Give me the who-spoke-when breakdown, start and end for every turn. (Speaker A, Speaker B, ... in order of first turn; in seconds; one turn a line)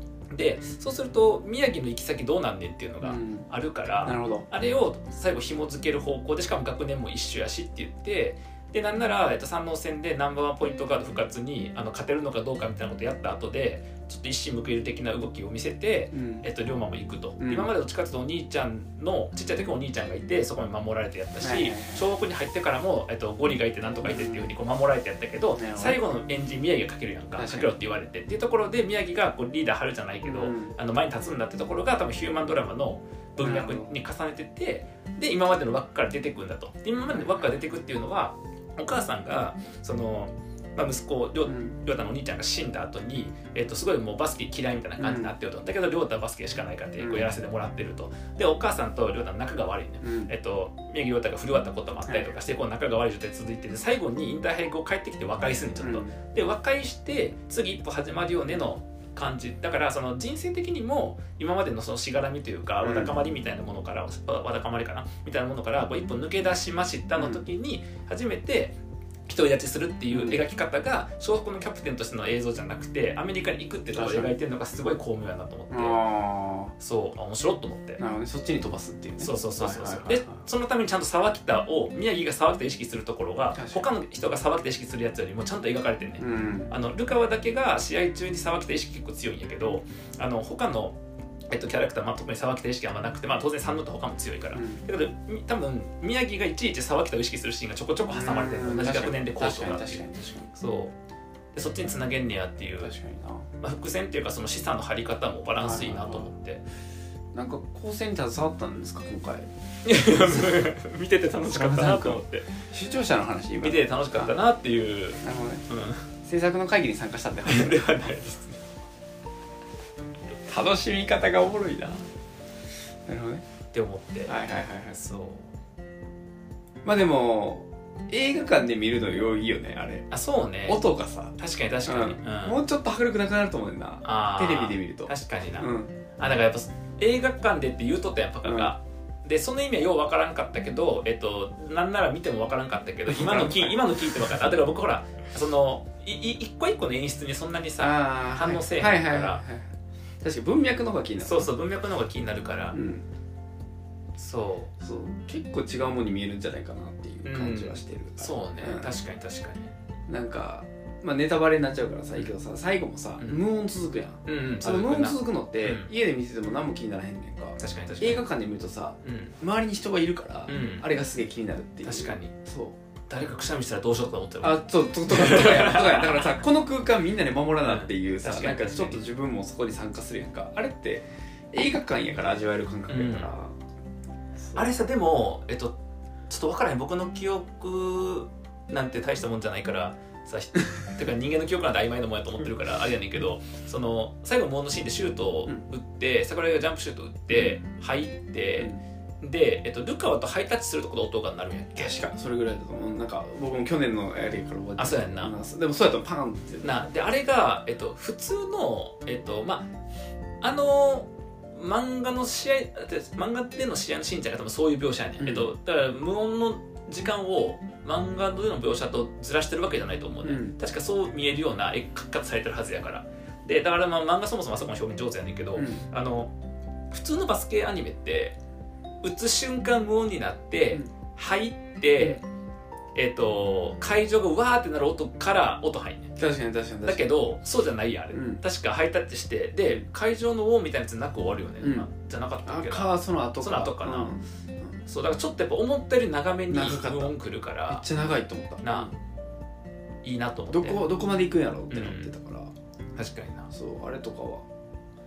Speaker A: 0.3-76.0
Speaker B: 3.0-3.5
Speaker B: 4.0-4.5
Speaker B: 16.1-16.5
Speaker B: 17.4-17.7
Speaker B: 21.4-22.1
Speaker B: 24.0-24.6
Speaker B: 25.5-26.0
Speaker B: 27.4-27.7
Speaker B: 30.2-30.8
Speaker B: 33.4-34.0
Speaker B: 37.1-37.6
Speaker B: 41.5-41.8
Speaker B: 45.0-45.3
Speaker B: 47.0-47.4
Speaker B: 50.0-50.3
Speaker B: 55.8-56.2
Speaker B: 62.8-63.2
Speaker B: 67.2-67.4
Speaker B: 70.1-70.4
Speaker B: 73.9-74.3
Speaker B: 75.7-76.7
Speaker A: 76.8-78.0
Speaker B: 78.0-80.4
Speaker A: 79.2-91.0
Speaker B: 83.5-83.9
Speaker B: 86.2-86.7
Speaker A: 91.5-100.9
Speaker B: 94.5-94.8
Speaker B: 98.1-100.5
Speaker A: 101.5-102.9
Speaker B: 102.8-103.5
Speaker A: 103.6-106.6
Speaker B: 105.6-106.3
Speaker B: 107.3-109.5
Speaker A: 109.8-112.5
Speaker B: 110.0-110.7
Speaker B: 111.4-114.4
Speaker A: 113.6-116.1
Speaker B: 115.2-115.7
Speaker B: 116.2-117.8
Speaker A: 117.5-118.6
Speaker B: 120.5-122.1
Speaker B: 123.1-123.4
Speaker A: 123.7-124.3
Speaker B: 124.3-125.0
Speaker A: 124.9-125.5
Speaker B: 126.8-130.1
Speaker A: 130.1-132.6
Speaker B: 130.7-135.9
Speaker A: 134.0-149.4
Speaker B: 138.4-138.7
Speaker B: 143.1-143.8
Speaker B: 147.8-149.7
Speaker B: 150.2-151.5
Speaker A: 151.2-152.8
Speaker B: 152.7-153.0
Speaker A: 154.2-154.7
Speaker B: 154.8-158.9
Speaker A: 157.2-159.7
Speaker B: 160.1-172.8
Speaker A: 164.3-165.9
Speaker A: 167.6-168.3
Speaker A: 169.0-169.3
Speaker A: 170.5-170.9
Speaker A: 171.8-172.3
Speaker A: 173.1-176.2
Speaker B: 174.4-183.6
Speaker A: 177.7-179.0
Speaker A: 182.9-183.3
Speaker B: 184.4-184.7
Speaker A: 184.5-185.7
Speaker A: 186.3-202.0
Speaker B: 197.3-197.6
Speaker B: 201.8-206.8
Speaker A: 204.8-205.3
Speaker A: 206.6-209.7
Speaker A: 210.4-226.3
Speaker B: 215.2-215.5
Speaker B: 220.2-220.6
Speaker B: 225.6-225.8
Speaker A: 226.9-228.4
Speaker A: 229.0-232.2
Speaker A: 232.9-236.2
Speaker B: 236.2-237.2
Speaker A: 236.9-244.1
Speaker B: 238.1-238.4
Speaker B: 241.6-241.9
Speaker B: 242.4-244.7
Speaker A: 244.9-247.9
Speaker B: 246.5-247.2
Speaker B: 247.7-248.9
Speaker A: 248.6-248.9
Speaker A: 250.0-250.8
Speaker B: 250.5-252.5
Speaker A: 251.7-252.1
Speaker A: 252.9-253.5
Speaker B: 253.5-254.5